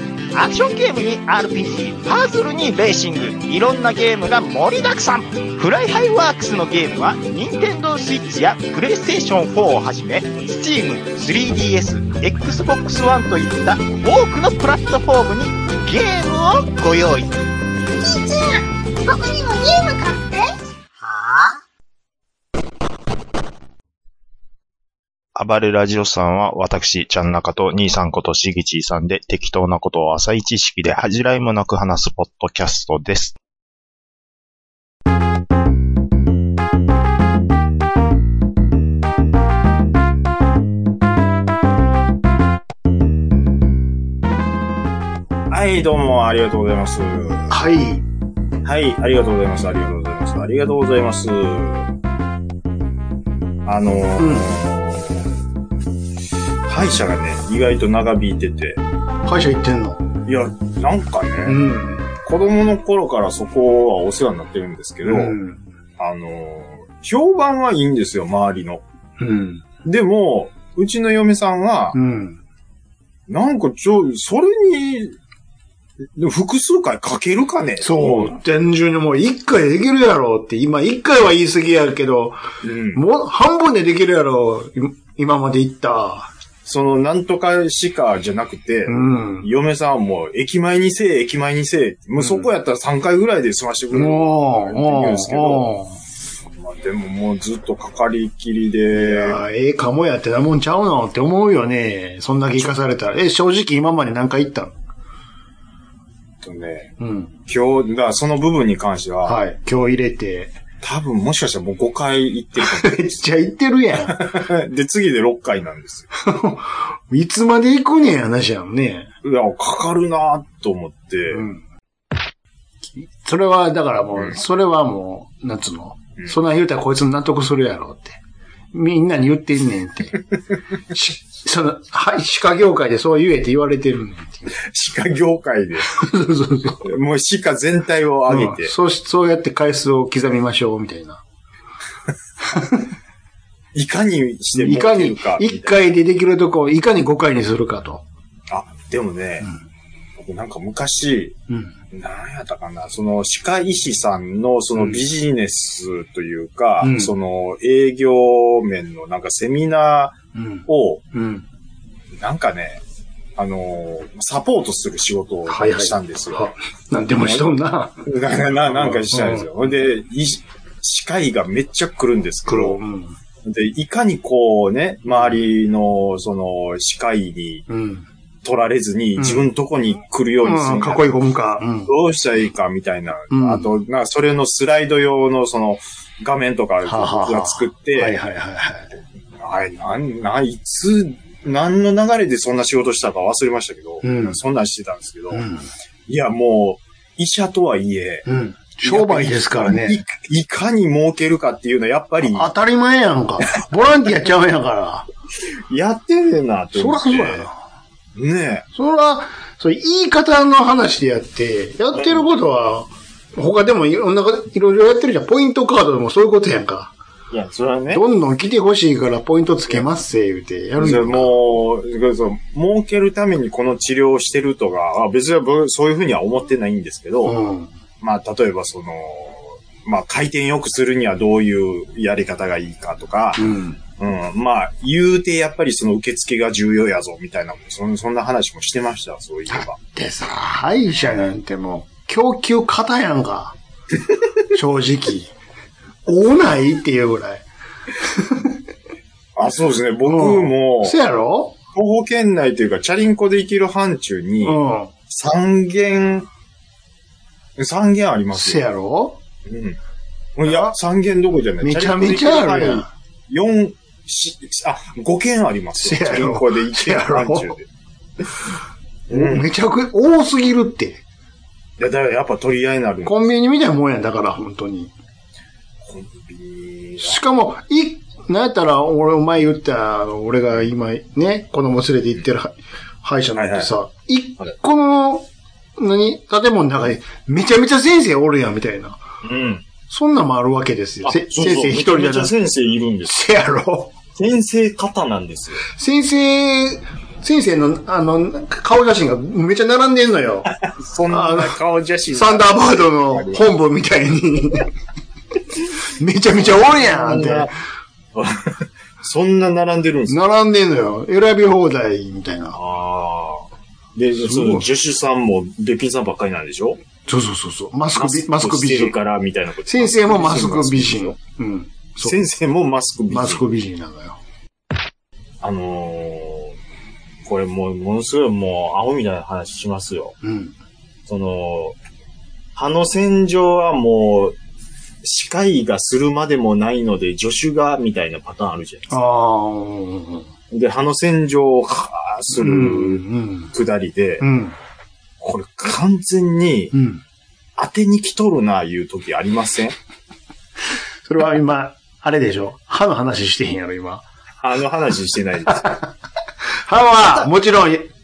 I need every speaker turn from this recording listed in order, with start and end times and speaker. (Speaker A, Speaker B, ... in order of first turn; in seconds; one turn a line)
Speaker A: 0.3-17.3
Speaker B: 17.9-20.5
Speaker B: 21.1-21.5
Speaker C: 25.4-33.3
Speaker D: 45.5-47.6
Speaker E: 47.5-48.0
Speaker D: 48.6-51.9
Speaker D: 53.7-55.3
Speaker E: 54.2-54.5
Speaker D: 56.7-58.8
Speaker E: 59.3-60.0
Speaker D: 60.3-61.6
Speaker E: 61.5-62.1
Speaker D: 62.1-65.4
Speaker E: 65.0-65.6
Speaker D: 66.0-68.8
Speaker E: 69.2-69.6
Speaker D: 69.8-72.0
Speaker E: 71.9-72.4
Speaker D: 73.3-75.2
Speaker D: 76.2-78.4
Speaker E: 77.8-82.4
Speaker D: 82.6-83.0
Speaker E: 82.9-86.3
Speaker D: 86.7-95.7
Speaker E: 88.9-89.5
Speaker E: 92.2-92.5
Speaker E: 93.9-96.0
Speaker D: 96.6-99.4
Speaker E: 98.9-104.7
Speaker D: 106.4-106.9
Speaker E: 107.0-107.3
Speaker D: 107.5-109.4
Speaker E: 109.2-110.5
Speaker D: 110.8-113.2
Speaker E: 112.7-114.3
Speaker D: 114.1-116.1
Speaker E: 116.2-119.1
Speaker D: 119.2-121.4
Speaker E: 121.3-121.6
Speaker E: 123.0-128.2
Speaker E: 128.7-130.2
Speaker E: 130.9-134.5
Speaker D: 134.6-136.0
Speaker E: 135.9-136.8
Speaker D: 136.8-138.7
Speaker E: 138.3-141.2
Speaker D: 143.7-145.9
Speaker E: 144.6-148.0
Speaker D: 148.5-149.5
Speaker D: 150.2-151.4
Speaker D: 151.9-161.0
Speaker E: 156.8-157.1
Speaker E: 160.3-161.4
Speaker D: 162.2-162.8
Speaker D: 163.4-166.5
Speaker E: 165.5-168.1
Speaker D: 167.2-167.5
Speaker D: 168.0-172.8
Speaker E: 168.7-169.5
Speaker E: 172.5-173.2
Speaker D: 173.4-177.7
Speaker E: 177.7-178.1
Speaker D: 178.4-181.2
Speaker E: 179.2-179.5
Speaker E: 180.4-181.9
Speaker D: 181.8-188.2
Speaker E: 183.3-183.7
Speaker E: 186.8-188.9
Speaker D: 189.4-195.4
Speaker E: 194.0-194.4
Speaker E: 195.3-195.7
Speaker D: 196.1-198.3
Speaker E: 198.3-200.0
Speaker D: 198.8-202.5
Speaker E: 202.3-205.1
Speaker D: 205.7-207.5
Speaker E: 206.8-207.5
Speaker D: 208.2-208.7
Speaker E: 208.8-216.9
Speaker D: 217.3-218.0
Speaker E: 217.9-221.3
Speaker D: 220.8-227.4
Speaker E: 227.2-227.7
Speaker D: 228.0-239.8
Speaker E: 233.4-233.8
Speaker E: 239.5-243.6
Speaker E: 244.5-245.3
Speaker E: 246.1-247.4
Speaker E: 248.2-248.5
Speaker D: 249.3-251.0
Speaker E: 250.1-251.6
Speaker D: 251.7-256.3
Speaker E: 254.4-254.9
Speaker D: 257.6-258.7
Speaker E: 258.3-259.2
Speaker D: 259.5-259.8
Speaker D: 260.4-267.6
Speaker E: 261.6-262.9
Speaker E: 265.8-267.5
Speaker D: 269.1-269.5
Speaker E: 269.1-271.0
Speaker D: 271.8-273.2
Speaker E: 273.1-274.9
Speaker D: 275.8-277.2
Speaker E: 277.0-285.3
Speaker D: 283.4-283.7
Speaker E: 285.8-289.0
Speaker D: 289.2-289.6
Speaker E: 289.9-292.3
Speaker D: 291.0-293.1
Speaker E: 293.1-293.9
Speaker D: 294.2-295.6
Speaker E: 295.7-300.5
Speaker D: 300.5-303.5
Speaker E: 301.1-301.6
Speaker E: 302.1-304.7
Speaker E: 306.0-307.5
Speaker D: 306.4-307.5
Speaker D: 308.1-310.2
Speaker E: 310.1-312.6
Speaker D: 312.5-316.8
Speaker E: 314.2-314.7
Speaker E: 317.1-319.0
Speaker D: 317.9-321.2
Speaker E: 319.7-322.2
Speaker D: 322.0-323.5
Speaker E: 323.1-324.2
Speaker D: 325.4-326.6
Speaker D: 327.2-330.1
Speaker E: 330.2-330.5
Speaker D: 331.1-331.8
Speaker D: 332.6-334.4
Speaker D: 335.0-339.0
Speaker E: 338.9-340.3
Speaker D: 340.5-344.3
Speaker E: 342.3-343.5
Speaker E: 344.2-344.6
Speaker D: 345.2-346.7
Speaker E: 346.7-347.0
Speaker D: 347.6-349.8
Speaker E: 351.1-354.0
Speaker D: 354.4-355.7
Speaker E: 355.5-355.8
Speaker E: 356.6-357.9
Speaker D: 357.0-357.3